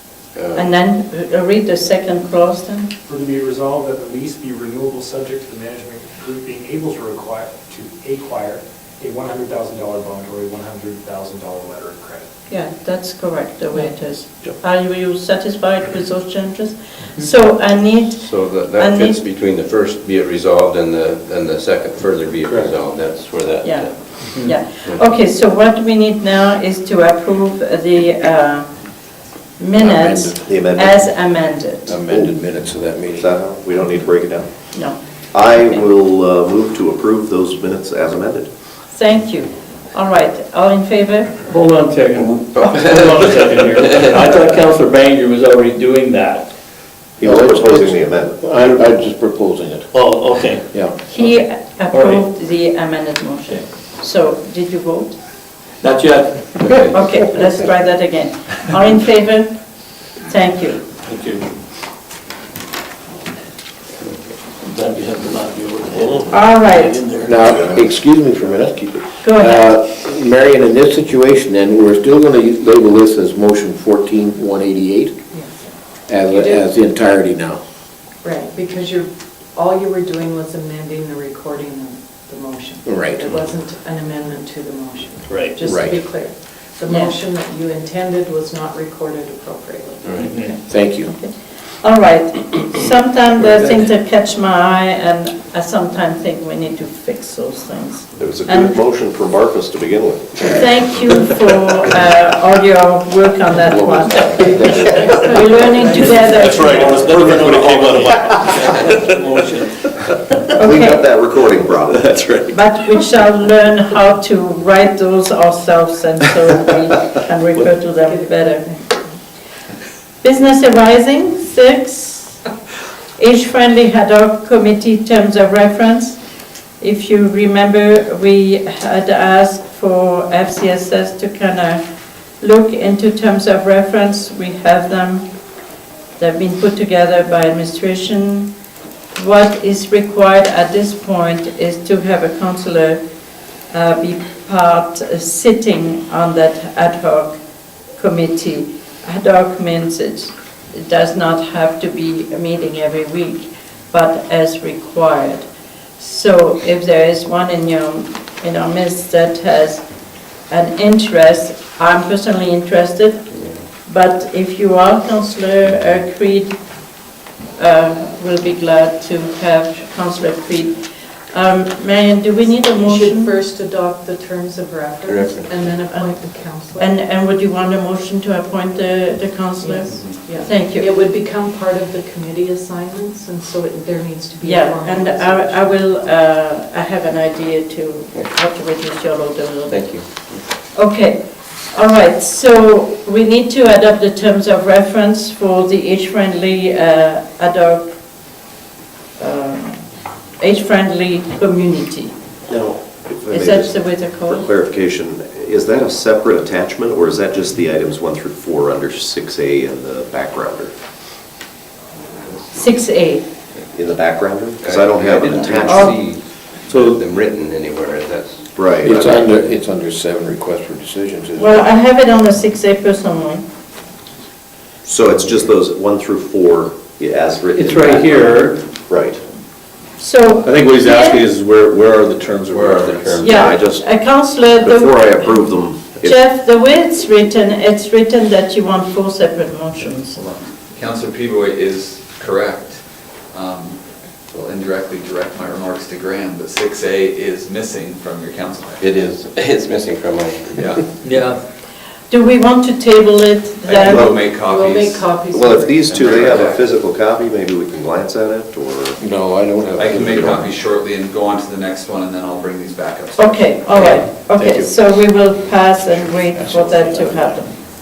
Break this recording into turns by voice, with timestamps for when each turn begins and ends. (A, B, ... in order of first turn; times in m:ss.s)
0:00.3-0:00.7 A
0:00.5-0:02.9 B
0:03.0-0:12.3 C
0:12.5-0:19.2 B
0:18.1-0:24.0 A
0:23.6-0:28.9 B
0:29.6-0:32.3 B
0:29.8-0:30.4 D
0:30.4-0:31.1 E
0:31.9-0:33.3 D
0:33.2-0:34.5 E
0:34.7-0:35.8 B
0:35.3-0:38.5 E
0:38.9-0:41.4 B
0:41.5-0:46.5 F
0:47.2-0:48.4 E
0:47.2-0:49.9 D
0:49.9-0:50.6 F
0:50.7-0:51.0 D
0:51.1-0:55.2 B
0:51.9-0:52.2 F
0:55.8-0:56.8 F
0:56.6-0:56.9 A
0:56.8-0:59.5 B
1:00.2-1:00.8 B
1:01.0-1:01.5 F
1:04.6-1:07.7 F
1:06.3-1:07.0 B
1:07.2-1:15.1 D
1:09.2-1:09.6 B
1:15.3-1:15.7 G
1:16.1-1:17.6 D
1:16.3-1:16.6 G
1:18.2-1:30.5 G
1:22.8-1:23.2 D
1:25.3-1:25.6 F
1:25.6-1:26.0 D
1:26.9-1:27.2 B
1:30.1-1:30.5 F
1:30.7-1:31.1 D
1:30.8-1:38.8 B
1:38.2-1:40.6 E
1:40.4-1:47.1 B
1:43.6-1:45.3 D
1:44.8-1:47.3 G
1:45.8-1:49.7 F
1:50.6-1:52.4 E
1:50.6-1:51.1 B
1:52.5-1:58.7 B
1:57.6-1:59.1 G
2:00.2-2:02.4 B
2:03.2-2:06.2 B
2:06.8-2:11.8 B
2:12.4-2:15.3 B
2:16.2-2:18.5 B
2:19.1-2:23.0 B
2:23.7-2:27.4 B
2:27.9-2:39.8 B
2:40.5-2:46.6 B
2:47.5-2:53.3 B
2:52.5-2:56.9 G
2:55.1-2:55.5 A
2:55.8-2:56.2 B
2:56.8-3:00.9 B
2:59.6-3:05.8 G
3:04.4-3:17.9 B
3:09.7-3:10.4 A
3:19.2-3:19.8 B
3:20.4-3:22.1 B
3:22.5-3:30.7 E
3:23.3-3:24.5 B
3:32.5-3:33.3 B
3:33.7-3:36.0 E
3:34.6-3:39.5 A
3:35.3-3:36.0 B
3:36.7-3:37.0 E
3:38.5-3:39.1 E
3:38.8-3:41.6 D
3:41.3-3:43.4 B
3:44.8-3:49.2 E
3:47.5-3:48.6 F
3:50.0-3:51.3 B
3:50.4-3:53.0 H
3:52.5-3:53.7 A
3:53.2-3:55.5 B
3:53.2-3:53.9 E
3:54.5-3:56.1 E
3:56.0-4:00.3 B
4:00.2-4:02.8 I
4:03.3-4:03.8 I
4:04.3-4:08.9 I
4:08.8-4:10.7 A
4:10.5-4:10.8 I
4:11.0-4:11.4 F
4:12.1-4:14.0 B
4:13.6-4:15.1 I
4:13.8-4:14.2 E
4:14.0-4:15.9 G
4:15.3-4:19.0 E
4:15.8-4:16.6 I
4:19.0-4:20.5 D
4:19.8-4:23.9 I
4:23.2-4:27.6 B
4:24.0-4:24.7 D